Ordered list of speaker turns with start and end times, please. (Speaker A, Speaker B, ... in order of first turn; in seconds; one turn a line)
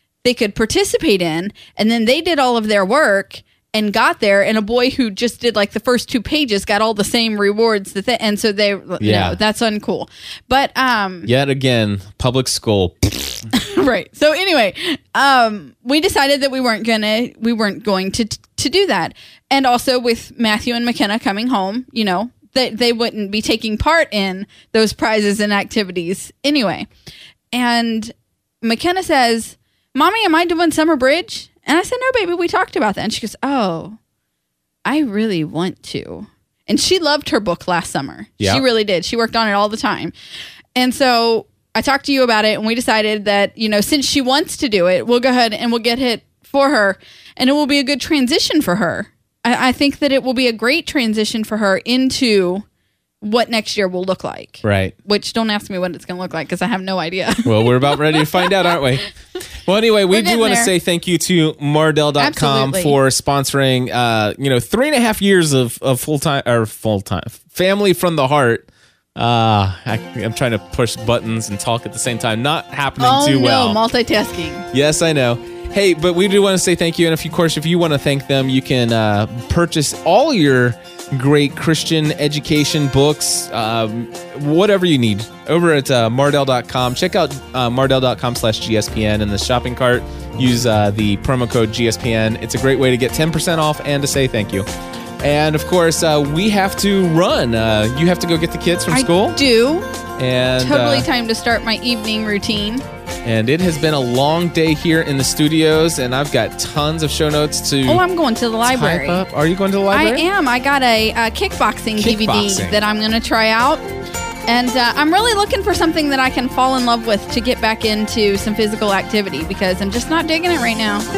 Speaker A: 0.2-11.3
Speaker B: 9.0-9.4
Speaker B: 11.3-13.5
Speaker A: 13.5-26.9
Speaker A: 27.5-34.0
Speaker A: 34.9-40.1
Speaker B: 38.4-38.6
Speaker A: 40.8-52.6
Speaker A: 53.2-58.8
Speaker B: 54.6-55.0
Speaker B: 57.5-59.1
Speaker B: 59.6-73.8
Speaker A: 60.1-60.7
Speaker A: 62.2-63.0
Speaker A: 73.0-74.7
Speaker B: 74.7-94.7
Speaker B: 95.2-99.4
Speaker A: 98.9-99.9
Speaker B: 100.2-101.1
Speaker A: 100.6-102.8
Speaker B: 103.2-108.0
Speaker A: 107.8-109.2
Speaker B: 108.6-110.2
Speaker A: 109.9-113.8
Speaker B: 112.0-112.8
Speaker A: 114.5-121.1